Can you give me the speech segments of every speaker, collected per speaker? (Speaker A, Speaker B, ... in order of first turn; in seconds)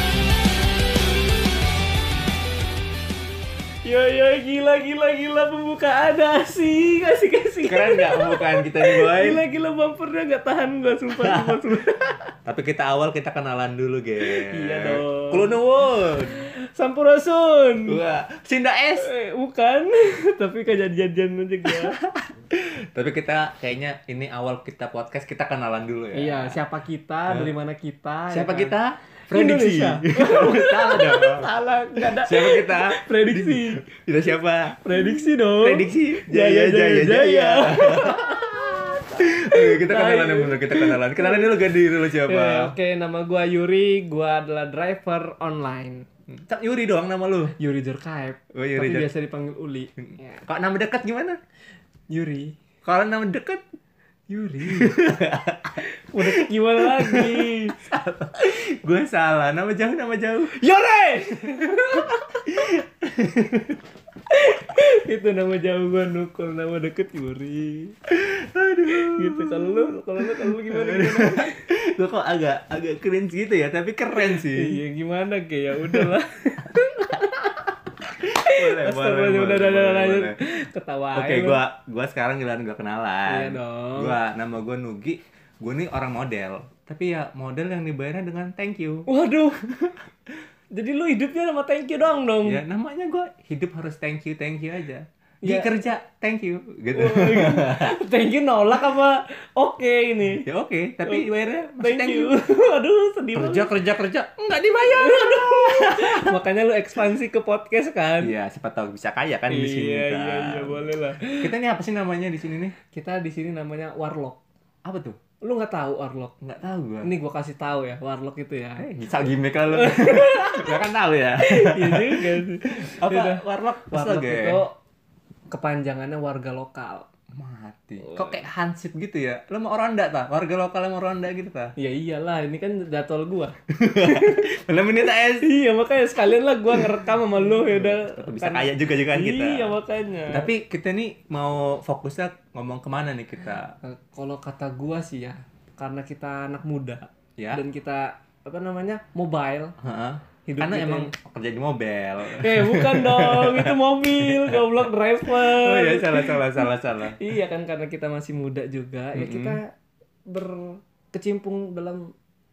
Speaker A: 3.8-12.3, 14.2-15.6, 16.3-18.0, 19.0-22.0, 26.1-28.8, 29.3-33.9, 34.8-46.1, 47.6-50.4, 52.1-52.6, 54.3-55.0, 55.8-57.8, 60.5-62.7, 64.3-68.0, 68.9-71.6, 74.1-77.6, 78.2-81.6, 83.3-84.2, 89.1-89.7, 90.7-92.6, 95.4-95.8, 96.9-100.5, 101.0-103.7, 104.9-108.3, 109.5-111.5, 112.9-114.4, 115.4-116.4, 117.0-118.9, 119.7-120.8, 121.4-124.8, 125.5-127.1, 128.0-128.4, 131.8-134.5, 135.4-140.5, 143.8-149.8, 150.5-151.1, 152.2-159.7, 160.3-162.1
Speaker B: 7.6-9.4, 11.2-11.6, 12.4-16.4, 17.9-19.1, 21.7-26.6, 28.3-38.5, 39.1-42.8, 46.3-47.5, 48.5-49.1, 50.0-51.4, 52.8-53.6, 54.7-55.8, 56.3-60.6, 61.7-61.9, 62.5-63.8, 68.1-74.8, 78.3-80.4, 81.1-89.1, 92.4-98.0, 100.4-102.4, 103.3-106.3, 108.2-112.8, 114.8-115.2, 116.4-117.1, 118.8-124.6, 127.3-131.8, 133.7-135.5, 137.4-139.8, 140.3-143.8, 149.8-154.7, 155.3-157.2, 159.2-159.6